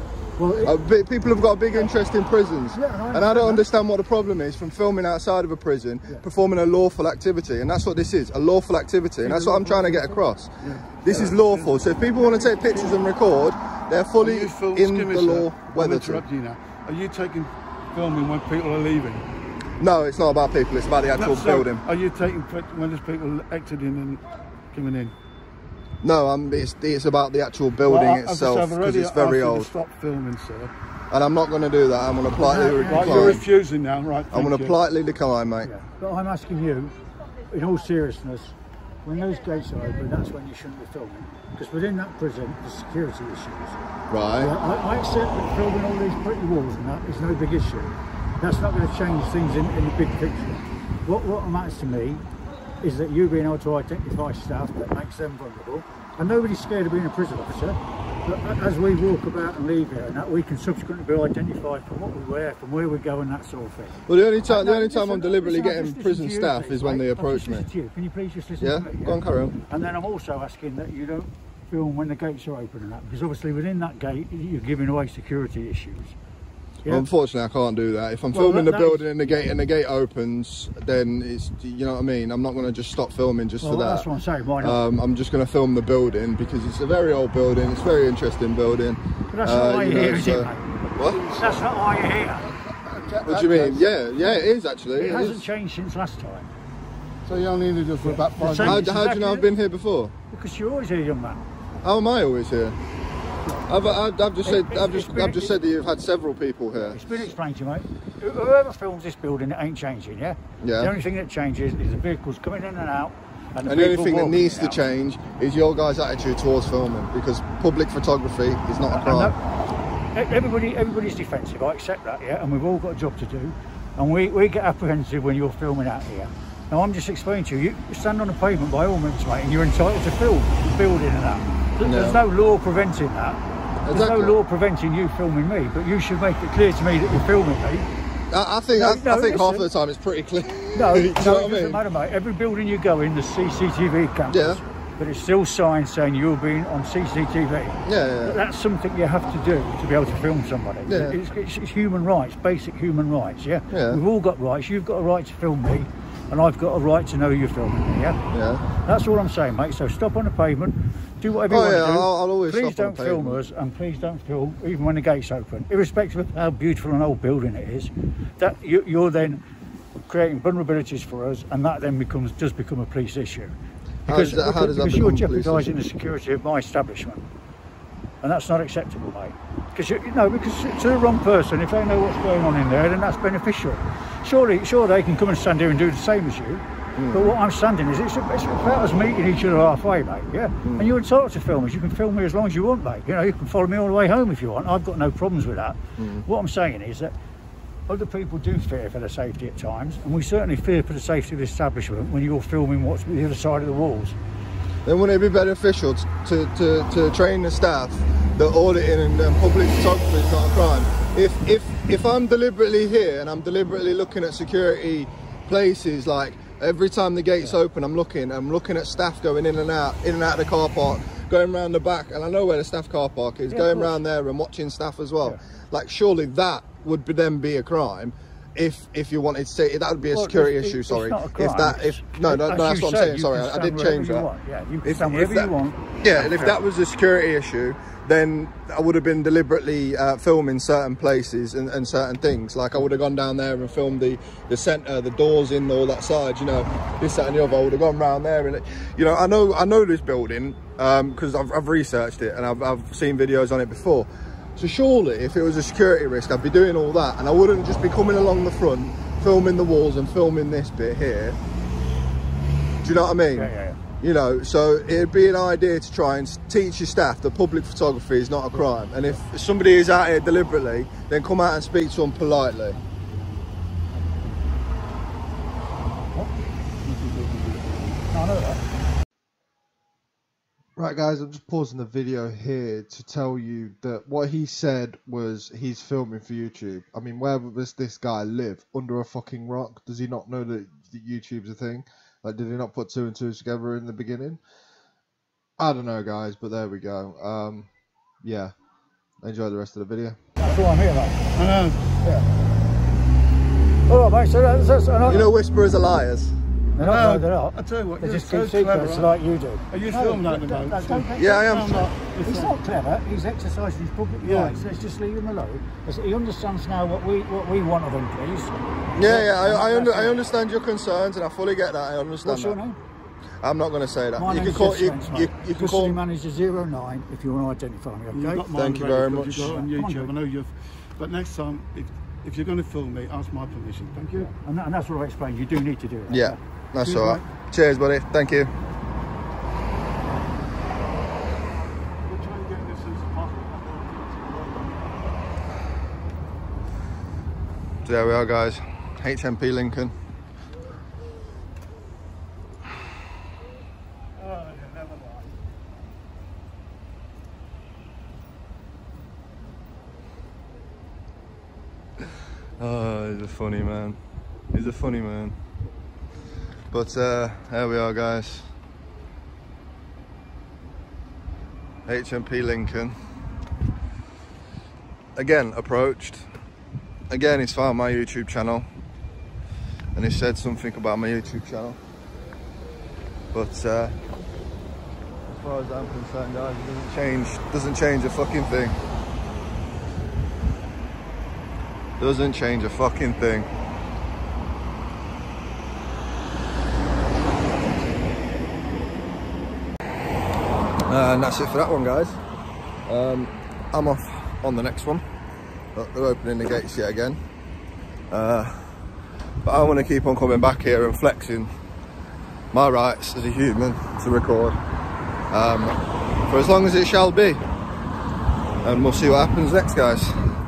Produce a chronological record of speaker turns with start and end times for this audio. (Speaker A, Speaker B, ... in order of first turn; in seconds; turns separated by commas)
Speaker A: 0.4-0.8, Speaker B: 0.6-10.5, Speaker A: 2.7-3.6, Speaker C: 9.2-12.4, Speaker B: 11.0-16.2, Speaker A: 12.5-12.9, Speaker C: 14.2-19.3, Speaker B: 19.8-21.8, Speaker C: 21.1-24.2, Speaker C: 24.7-25.1, Speaker B: 26.0-29.7, Speaker C: 27.9-30.7, Speaker B: 31.1-33.4, Speaker A: 32.3-33.4, Speaker C: 32.8-34.8, Speaker B: 34.3-35.7, Speaker A: 35.6-36.9, Speaker A: 37.5-43.8, Speaker B: 44.1-44.5, Speaker A: 44.4-52.2, Speaker A: 52.8-76.2, Speaker B: 64.1-67.7, Speaker B: 68.6-69.6, Speaker B: 76.9-84.1, Speaker A: 78.3-79.1, Speaker A: 83.6-84.8, Speaker B: 84.6-91.2, Speaker A: 89.3-92.5, Speaker C: 92.5-93.9, Speaker B: 93.2-95.5, Speaker A: 94.9-96.5, Speaker C: 97.3-98.9, Speaker A: 98.0-99.5, Speaker B: 98.6-100.1, Speaker A: 100.3-101.4, Speaker B: 101.8-102.8, Speaker A: 103.5-105.5, Speaker B: 103.7-107.0, Speaker A: 106.8-114.8, Speaker B: 110.6-110.9, Speaker B: 113.7-119.3, Speaker A: 118.9-119.4, Speaker A: 120.1-137.9, Speaker B: 131.8-132.2, Speaker B: 133.8-134.4, Speaker B: 138.3-141.8, Speaker A: 138.8-139.7, Speaker A: 140.7-158.2, Speaker B: 144.3-144.6, Speaker B: 147.8-148.4, Speaker B: 150.9-151.2, Speaker B: 153.7-154.0, Speaker B: 158.3-158.6, Speaker A: 158.8-169.4, Speaker B: 161.5-163.4, Speaker A: 170.1-177.3, Speaker B: 174.1-175.7, Speaker A: 178.2-197.2, Speaker B: 187.0-187.4, Speaker B: 190.6-190.9, Speaker B: 196.0-196.2, Speaker A: 197.9-204.2, Speaker B: 204.8-234.3, Speaker A: 223.5-223.9, Speaker A: 230.0-236.6, Speaker B: 234.8-261.4, Speaker B: 262.8-272.8, Speaker A: 263.3-263.8, Speaker A: 268.6-269.2, Speaker A: 272.8-274.4, Speaker C: 276.8-278.0, Speaker A: 278.1-278.6, Speaker B: 280.8-294.4, Speaker B: 295.6-297.7, Speaker B: 298.2-298.5, Speaker B: 299.2-300.2, Speaker A: 300.4-301.2, Speaker C: 301.4-301.9, Speaker A: 303.9-305.3, Speaker B: 305.1-306.3, Speaker A: 306.8-311.3, Speaker C: 306.8-309.1, Speaker C: 309.7-312.6, Speaker B: 311.2-311.9, Speaker A: 312.2-320.3, Speaker C: 314.2-314.6, Speaker B: 319.0-322.6, Speaker A: 322.2-322.8, Speaker B: 323.4-326.0, Speaker A: 324.2-328.5, Speaker C: 328.1-334.3, Speaker B: 328.5-329.6, Speaker A: 329.4-330.1, Speaker A: 334.1-337.2, Speaker B: 336.1-338.5, Speaker C: 341.9-345.1, Speaker B: 347.8-349.9, Speaker C: 354.2-355.3, Speaker B: 362.6-364.0, Speaker B: 364.5-365.4, Speaker B: 366.7-368.5, Speaker B: 371.9-372.9, Speaker B: 375.2-376.3, Speaker B: 377.1-378.7, Speaker B: 379.9-381.8, Speaker B: 383.3-384.0, Speaker B: 385.3-388.8, Speaker B: 392.0-393.5, Speaker B: 400.9-402.2, Speaker B: 402.9-405.0, Speaker B: 405.8-407.2, Speaker B: 408.1-408.8, Speaker B: 409.4-411.5, Speaker B: 412.5-414.6, Speaker B: 415.3-417.4, Speaker B: 418.6-420.3